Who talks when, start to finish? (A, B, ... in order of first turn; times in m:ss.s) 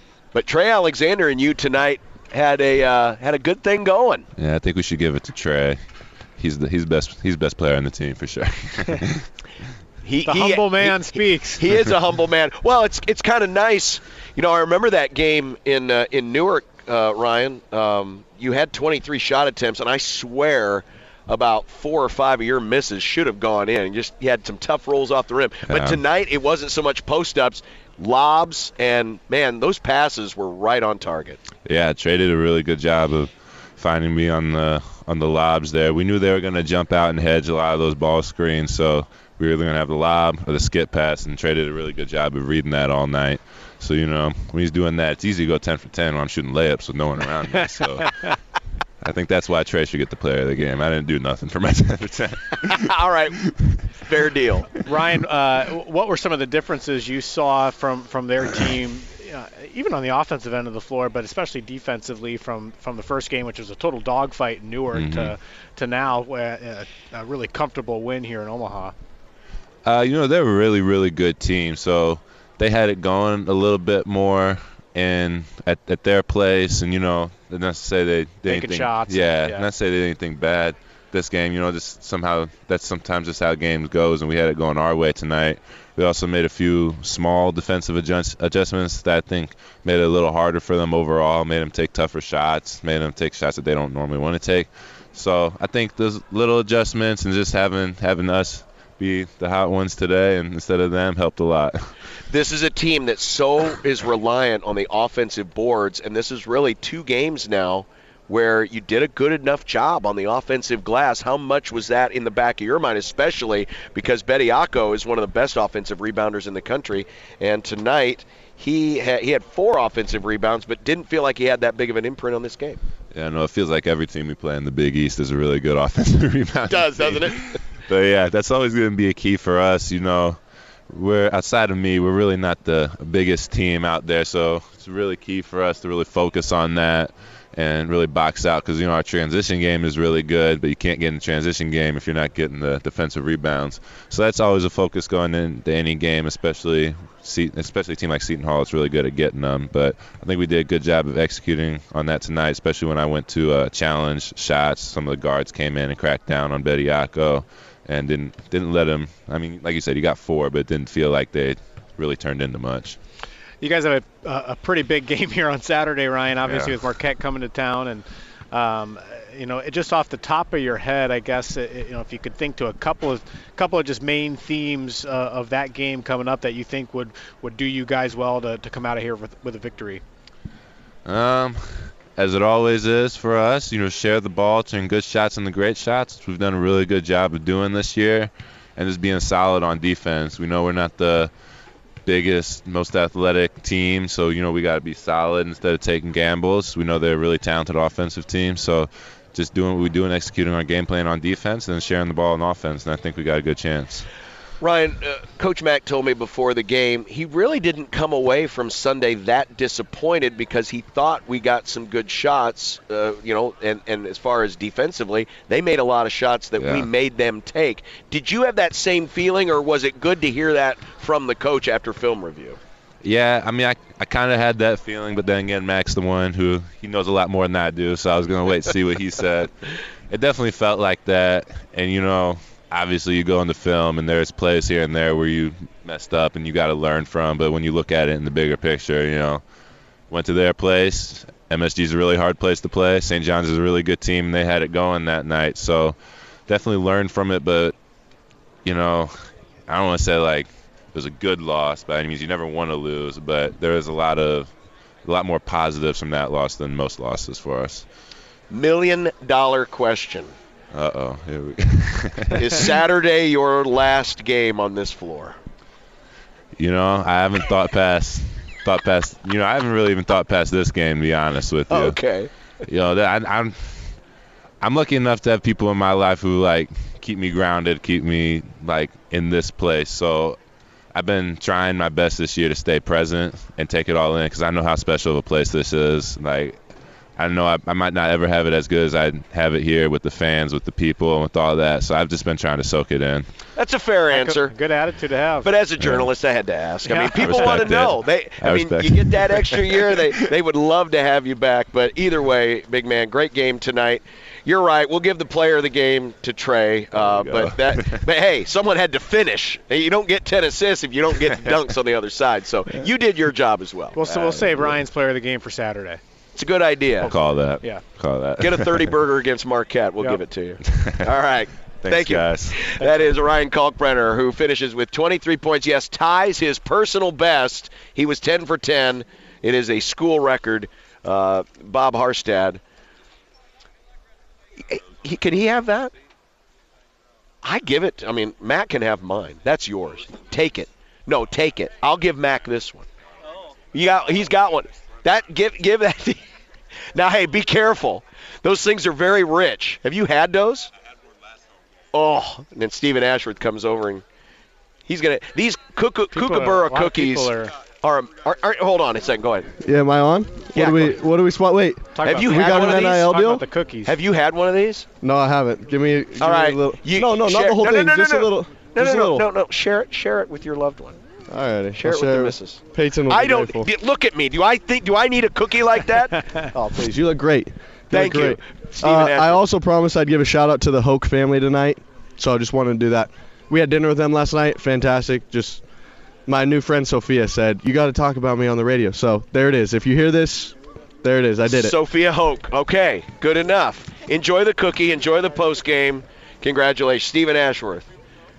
0:00.3-0:04.2 A
0:04.4-0:05.8 B
0:06.4-0:09.3 B
0:10.0-0:31.4 A
0:10.2-0:11.7 C
0:25.7-0:26.0 B
0:31.6-0:48.1 B
0:49.0-0:52.8 B
0:52.7-0:53.4 A
0:53.4-0:53.8 B
0:54.0-0:54.7 A
0:54.8-1:08.9 C
1:04.9-1:05.3 B
1:09.8-1:41.8 B
1:18.4-1:19.7 C
1:42.3-2:02.8 A
2:03.1-2:43.0 B
2:06.7-2:07.6 A
2:43.6-3:00.0 C
2:46.4-2:46.8 B
3:01.0-3:11.3 B
3:12.0-3:24.0 B
3:24.6-3:42.6 A
3:36.6-3:36.9 B
3:43.0-3:49.5 B
3:50.1-3:59.4 B
4:00.1-4:06.0 B
4:06.5-4:07.7 B
4:08.6-4:09.1 B
4:09.7-4:14.5 B
4:15.0-4:17.9 B
4:18.5-4:20.3 A
4:20.7-4:22.5 B
4:22.4-4:25.4 A
4:26.6-4:32.0 B
4:31.7-4:32.3 A
4:32.6-4:33.9 B
4:34.6-4:40.4 B
4:40.9-4:46.6 B
4:47.2-4:53.3 B
4:53.6-4:54.6 A
4:54.1-4:55.6 C
4:55.4-5:14.8 A
4:55.8-4:56.1 B
4:56.8-4:57.6 C
4:57.1-5:00.0 B
5:07.0-5:08.0 B
5:14.0-5:16.0 C
5:16.3-5:17.1 A
5:17.0-5:17.8 C
5:17.0-5:19.0 B
5:18.4-5:32.6 A
5:20.6-5:21.1 B
5:21.8-5:22.7 B
5:34.6-5:35.9 A
5:37.4-5:42.9 A
5:43.7-5:46.2 A
5:46.9-5:50.7 A
5:51.9-5:54.0 A
5:54.8-5:59.5 A
5:56.1-5:57.5 C
5:59.6-6:03.4 D
6:00.5-6:01.0 A
6:01.9-6:04.0 C
6:02.0-6:03.1 A
6:03.8-6:04.9 A
6:05.0-6:09.2 D
6:06.1-6:11.0 A
6:11.3-6:13.7 D
6:11.7-6:16.3 A
6:16.5-6:25.6 D
6:17.9-6:19.4 A
6:26.2-6:31.7 D
6:31.4-6:37.9 A